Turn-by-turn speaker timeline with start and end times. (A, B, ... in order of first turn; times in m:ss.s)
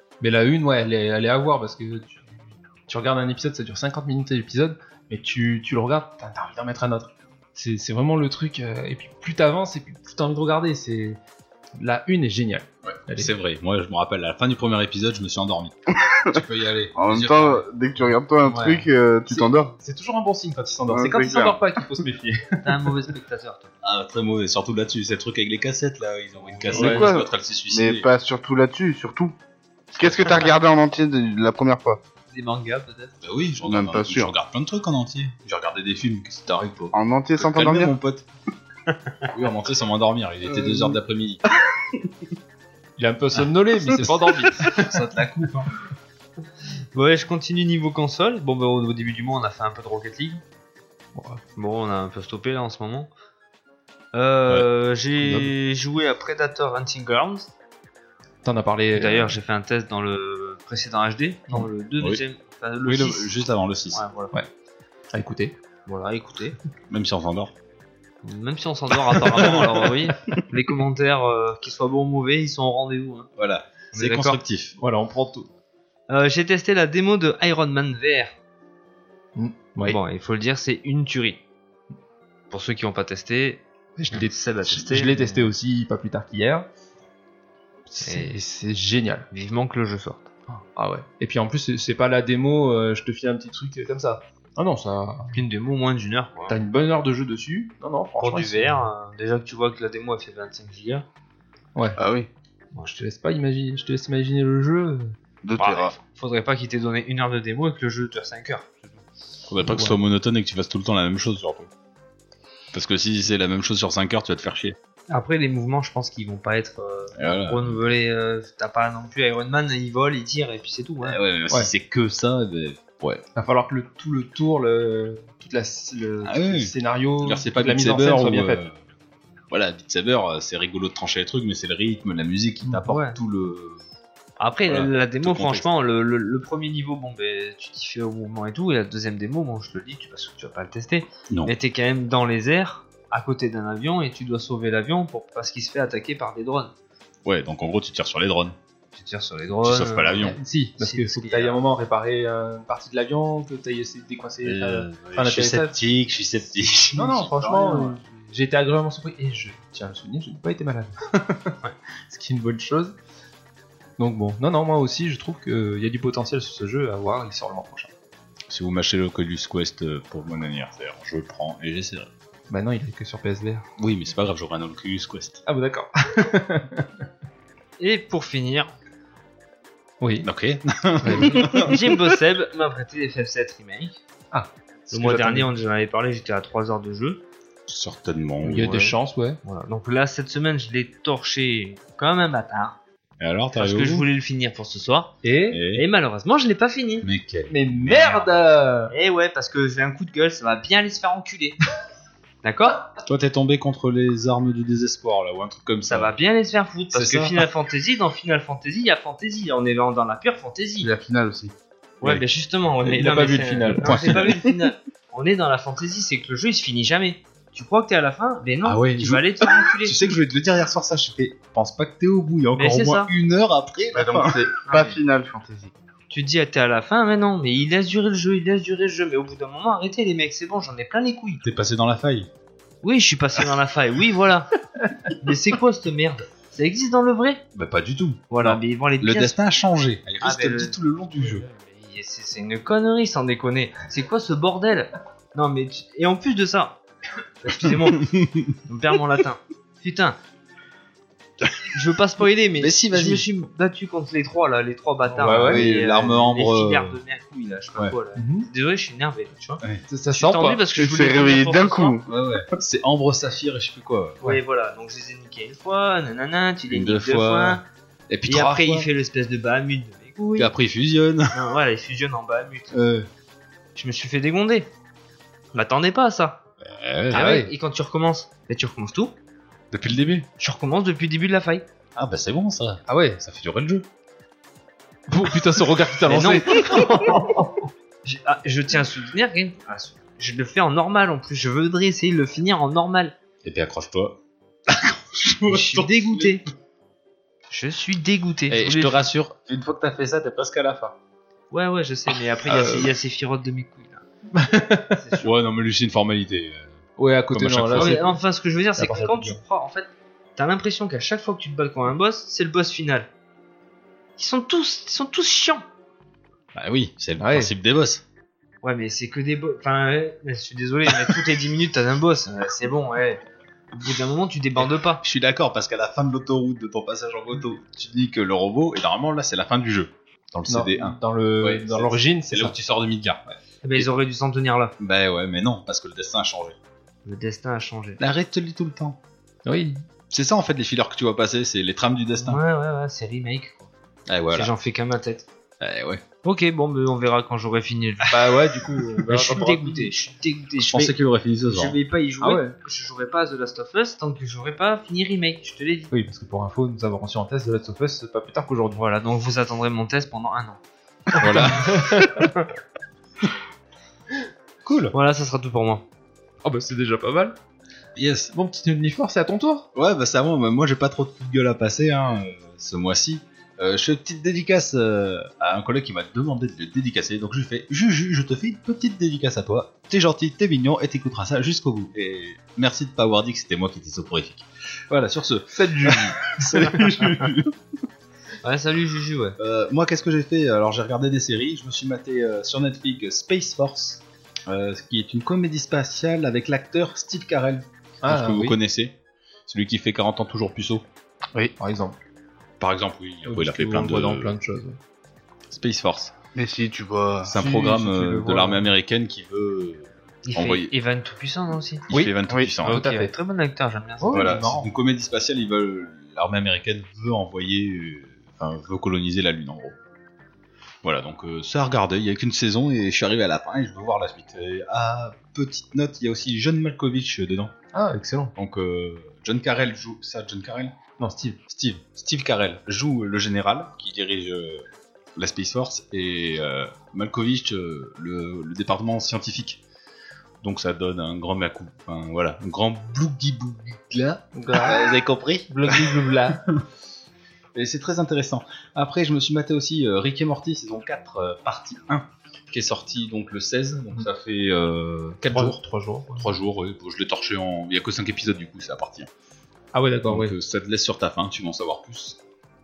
0:00.2-0:11.2 A
0:11.8-0:13.3 A
0:12.9-0:17.6 B
0:17.0-0:19.7 C
0:18.4-0:18.9 D
0:19.3-0:22.9 A
0:20.9-0:21.6 C
0:22.6-0:23.7 D
0:23.8-0:28.1 B
0:26.7-0:27.2 D
0:26.7-0:29.4 C
0:30.0-0:32.0 C
0:30.0-0:30.4 B
0:30.2-0:30.6 D
0:32.3-0:33.1 D
0:33.2-0:38.2 B
0:33.6-0:34.3 C
0:36.9-0:37.9 C
0:39.3-0:41.4 B
0:40.5-0:41.0 C
0:43.0-0:44.9 A
0:44.6-0:45.7 B
0:46.9-0:50.4 D
0:51.1-0:51.4 A
0:51.6-0:53.1 D
0:54.1-0:57.5 D
0:55.2-0:55.4 A
0:58.4-0:59.4 A
0:58.9-1:03.3 D
1:02.8-1:04.0 B
1:03.9-1:04.3 D
1:05.1-1:05.6 A
1:05.9-1:06.6 D
1:06.9-1:07.5 B
1:08.2-1:13.3 D
1:09.1-1:09.8 B
1:13.4-1:14.8 B
1:13.9-1:14.4 D
1:14.8-1:15.5 A
1:16.1-1:18.4 D
1:19.4-1:20.0 A
1:19.8-1:21.4 D
1:22.5-1:25.5 D
1:24.0-1:26.7 A
1:27.9-1:29.3 A
1:28.0-1:28.3 D
1:29.3-1:30.3 D
1:30.5-1:35.4 A
1:35.3-1:36.6 D
1:36.5-1:38.8 A
1:38.2-1:41.0 D
1:42.0-1:42.3 C
1:42.8-1:45.2 A
1:45.4-1:45.9 C
1:45.6-1:49.0 D
1:49.5-1:51.7 B
1:49.6-1:50.0 A
1:52.7-1:54.8 B
1:55.1-2:01.2 D
1:57.1-1:57.8 B
2:01.0-2:03.2 B
2:03.4-2:08.6 A
2:06.2-2:08.8 B
2:09.5-2:13.8 B
2:12.8-2:13.2 D
2:14.4-2:26.7 D
2:14.7-2:15.6 B
2:27.2-2:28.6 B
2:28.9-2:30.3 D
2:29.6-2:30.4 B
2:30.2-2:35.8 A
2:30.8-2:31.6 D
2:34.4-2:37.2 B
2:36.9-2:41.5 A
2:37.5-2:37.9 C
2:42.1-2:43.0 A
2:44.0-2:47.9 A
2:48.5-2:52.1 B
2:52.5-2:53.6 A
2:53.8-2:55.4 B
2:55.4-2:56.9 A
2:57.8-2:58.7 D
3:00.0-3:00.3 A
3:00.2-3:02.0 B
3:01.0-3:01.6 A
3:01.1-3:04.0 D
3:04.3-3:05.5 A
3:04.9-3:07.2 D
3:07.7-3:08.9 B
3:08.4-3:09.4 A
3:09.4-3:12.8 D
3:13.2-3:14.1 B
3:13.5-3:15.2 D
3:15.2-3:15.6 A
3:15.5-3:15.8 B
3:15.7-3:17.1 D
3:17.0-3:18.3 B
3:17.5-3:18.9 A
3:18.9-3:21.6 D
3:22.4-3:22.9 D
3:23.0-3:26.1 B
3:25.9-3:30.9 D
3:26.9-3:27.4 B
3:30.8-3:31.5 C
3:32.0-3:40.1 D
3:32.8-3:34.2 A
3:33.8-3:34.4 B
3:38.6-3:44.4 B
3:42.6-3:43.1 D
3:43.9-3:45.7 C
3:44.6-3:45.0 D
3:46.1-3:51.4 D
3:51.4-3:52.3 B
3:52.8-3:54.5 D
3:55.2-3:57.4 D
3:57.5-4:01.4 B
3:58.3-3:59.4 D
4:00.2-4:00.8 D
4:01.4-4:06.8 D
4:07.4-4:10.2 D
4:08.0-4:08.5 B
4:11.7-4:22.0 D
4:12.6-4:13.2 B
4:15.1-4:15.6 A
4:15.2-4:17.0 B
4:18.1-4:18.5 A
4:19.9-4:20.6 A
4:20.7-4:22.1 C
4:22.1-4:24.2 B
4:24.2-4:27.6 D
4:26.7-4:28.9 B
4:28.3-4:30.5 D
4:30.4-4:31.5 B
4:31.3-4:32.8 D
4:32.7-4:33.1 B
4:33.7-4:34.7 D
4:35.5-4:36.4 D
4:36.6-4:37.3 B
4:37.1-4:39.1 D
4:37.1-4:37.5 A
4:39.7-4:40.3 B
4:40.4-4:41.6 D
4:42.0-4:43.9 B
4:42.9-4:43.2 A
4:45.1-4:47.4 A
4:46.1-4:47.4 D
4:48.0-4:53.1 D
4:53.4-4:56.4 B
4:55.5-4:56.4 D
4:57.5-4:59.1 D
4:58.5-5:01.0 B
5:01.5-5:04.0 D
5:02.5-5:02.9 A
5:04.3-5:05.0 A
5:05.0-5:05.3 D
5:05.2-5:06.7 B
5:07.0-5:08.0 A
5:07.3-5:08.2 B
5:07.7-5:13.1 D
5:08.8-5:09.4 A
5:14.2-5:15.6 D
5:16.5-5:18.0 B
5:17.2-5:17.5 A
5:18.6-5:25.0 D
5:25.0-5:33.2 B
5:30.5-5:32.6 A
5:33.6-5:34.7 D
5:34.8-5:36.6 B
5:37.0-5:38.0 D
5:38.0-5:39.0 B
5:39.4-5:39.8 A
5:40.1-5:42.4 B
5:42.2-5:43.7 D
5:44.1-5:44.5 B
5:44.3-5:45.3 D
5:45.6-5:46.0 B
5:46.2-5:48.3 D
5:48.1-5:49.9 A
5:49.0-5:51.0 D
5:50.6-5:51.7 B
5:51.5-5:55.9 D
5:52.2-5:52.5 A
5:55.9-5:58.8 A
5:58.8-6:02.4 D
6:01.2-6:01.9 B
6:01.2-6:02.3 A
6:04.6-6:04.9 A
6:04.9-6:05.8 D
6:06.4-6:07.4 A
6:07.9-6:08.3 B
6:08.3-6:09.7 A
6:09.7-6:27.5 B
6:25.5-6:26.5 A
6:28.4-6:29.4 D
6:29.4-6:39.0 B
6:38.0-6:38.6 A
6:39.5-6:40.8 B
6:41.6-6:42.0 A
6:42.6-6:44.4 B
6:43.2-6:44.8 A
6:45.5-6:46.1 B
6:46.3-6:47.4 C
6:47.2-6:50.7 B
6:47.3-6:48.7 A
6:50.2-6:51.8 D
6:51.9-6:52.8 B
6:51.9-6:53.1 A
6:52.6-6:54.6 D
6:54.0-6:54.7 A
6:54.1-6:59.8 B
7:00.8-7:07.5 B
7:07.7-7:08.3 A
7:08.3-7:10.7 B
7:11.0-7:11.4 A
7:11.5-7:19.6 B
7:20.4-7:26.6 B
7:24.3-7:24.9 A
7:25.5-7:26.4 A
7:27.5-7:35.6 B
7:35.2-7:36.3 A
7:36.2-7:39.1 B
7:39.7-7:40.3 A
7:40.1-7:42.2 B